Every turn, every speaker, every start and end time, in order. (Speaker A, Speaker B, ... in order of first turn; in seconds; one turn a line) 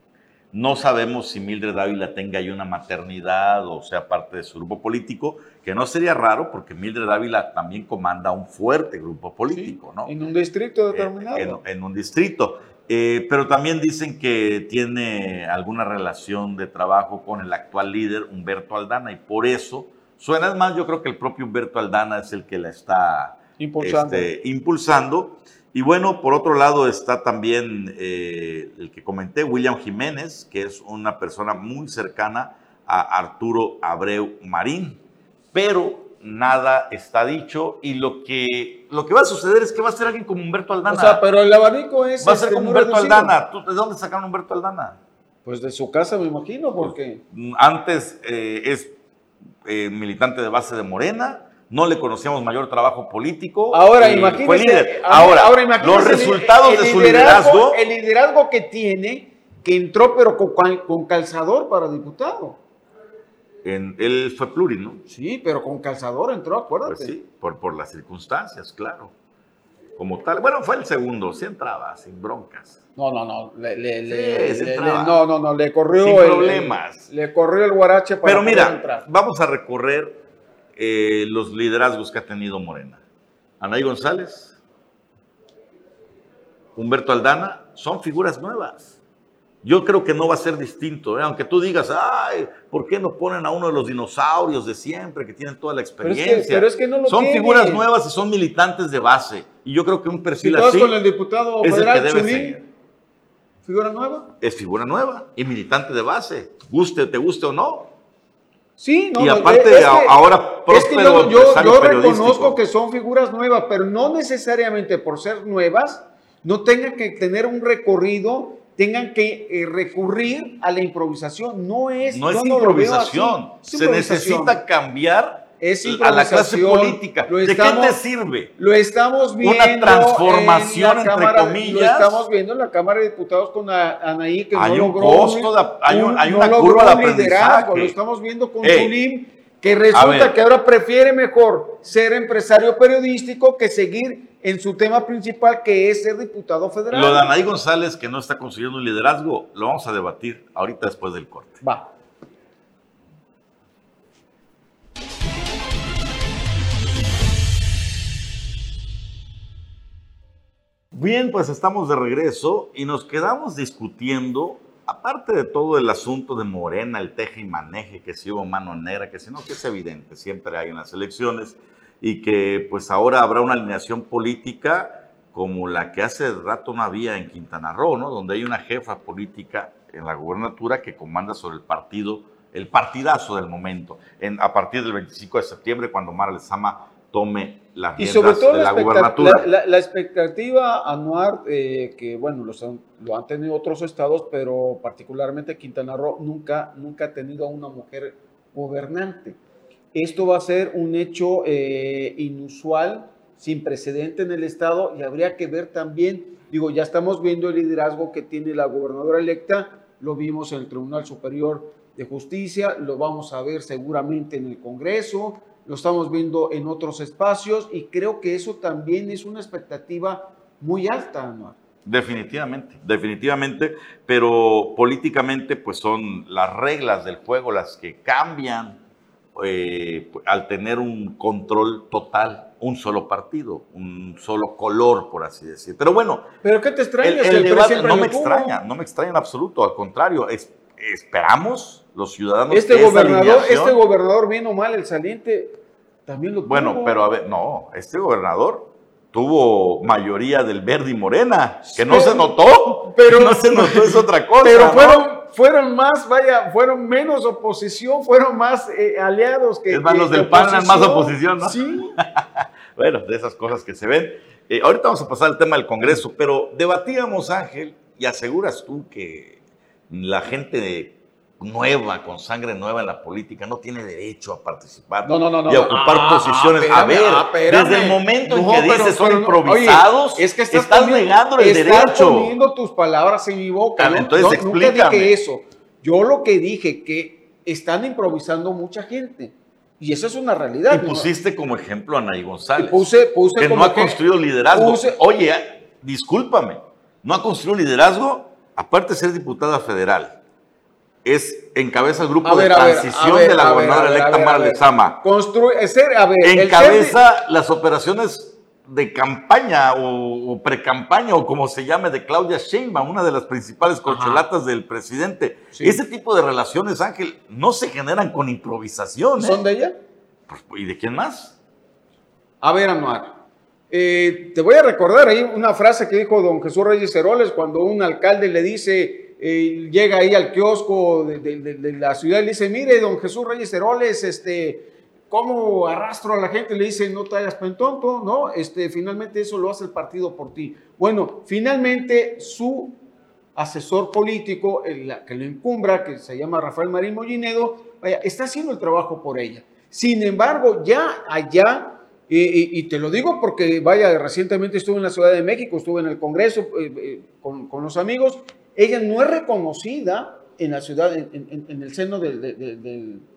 Speaker A: 0.5-10.1
Speaker B: 9.5-11.6
Speaker A: 10.9-35.0
Speaker B: 23.6-24.3
Speaker A: 35.5-41.2
Speaker B: 40.9-43.4
Speaker A: 42.2-45.0
Speaker B: 45.5-47.2
Speaker A: 46.8-48.9
Speaker A: 49.6-57.8
Speaker B: 53.7-62.6
Speaker A: 63.6-65.0
Speaker B: 65.1-67.2
Speaker A: 66.9-69.1
Speaker A: 70.0-72.8
Speaker B: 73.0-79.0
Speaker A: 74.1-75.2
Speaker A: 76.0-77.0
Speaker A: 78.2-80.2
Speaker A: 80.8-83.0
Speaker A: 83.6-84.6
Speaker A: 86.8-88.9
Speaker A: 89.6-101.0
Speaker B: 96.0-97.8
Speaker B: 100.4-102.6
Speaker A: 101.6-102.6
Speaker B: 103.6-104.3
Speaker A: 104.4-107.9
Speaker B: 108.8-124.6
Speaker A: 109.2-112.6
Speaker A: 122.0-128.5
Speaker B: 125.6-128.0
Speaker B: 128.6-147.4
Speaker A: 129.4-132.2
Speaker A: 134.5-138.0
Speaker A: 138.6-138.9
Speaker A: 139.9-140.4
Speaker A: 146.9-151.6
Speaker B: 151.6-151.9
Speaker A: 160.9-189.5
Speaker B: 188.0-199.4
Speaker B: 199.9-221.6
Speaker A: 221.8-228.8
Speaker A: 229.3-236.3
Speaker B: 236.4-238.5
Speaker A: 237.0-243.8
Speaker B: 242.5-247.0
Speaker A: 246.4-255.1
Speaker B: 251.7-261.9
Speaker A: 259.7-269.4
Speaker A: 269.9-282.4
Speaker B: 275.0-291.1
Speaker A: 283.8-285.2
Speaker A: 290.7-292.9
Speaker B: 292.6-294.0
Speaker A: 293.4-300.2
Speaker B: 294.5-295.0
Speaker A: 301.1-305.0
Speaker B: 302.2-307.0
Speaker A: 306.2-319.4
Speaker B: 313.9-314.2
Speaker B: 315.5-315.8
Speaker B: 319.2-319.8
Speaker A: 320.3-321.4
Speaker B: 322.4-323.1
Speaker B: 323.7-342.8
Speaker B: 343.4-363.1